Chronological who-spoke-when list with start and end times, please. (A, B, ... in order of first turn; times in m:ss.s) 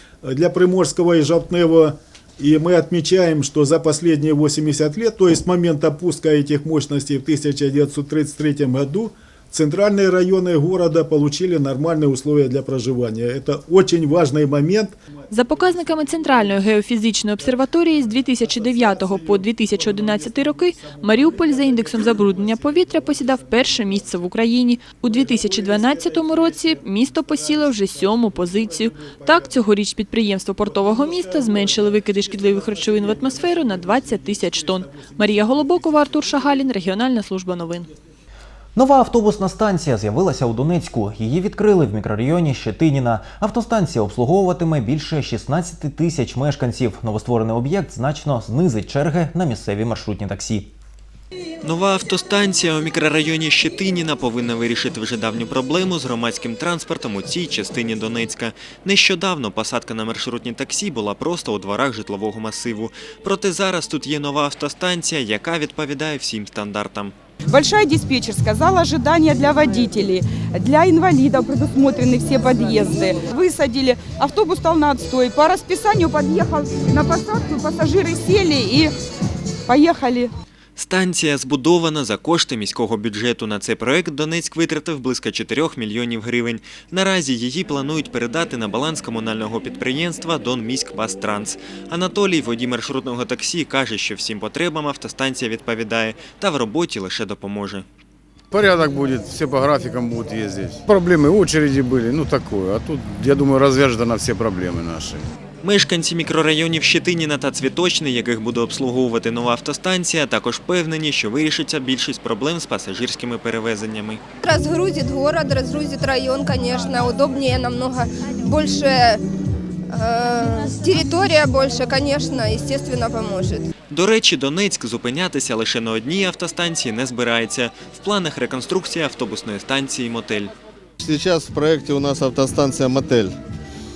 0:00.2-0:16.6 A
0:15.3-0:37.9 B
0:18.4-0:24.3 A
0:25.1-0:29.6 A
0:30.6-0:36.6 A
0:38.8-0:50.7 C
0:51.6-1:07.2 D
1:07.5-1:19.0 E
1:19.7-1:20.3 E
1:20.8-1:37.8 D
1:38.5-1:45.2 F
1:45.6-1:54.2 D
1:54.4-1:59.2 G
1:59.9-2:03.6 G
2:03.9-2:10.5 D
2:11.0-2:13.3 H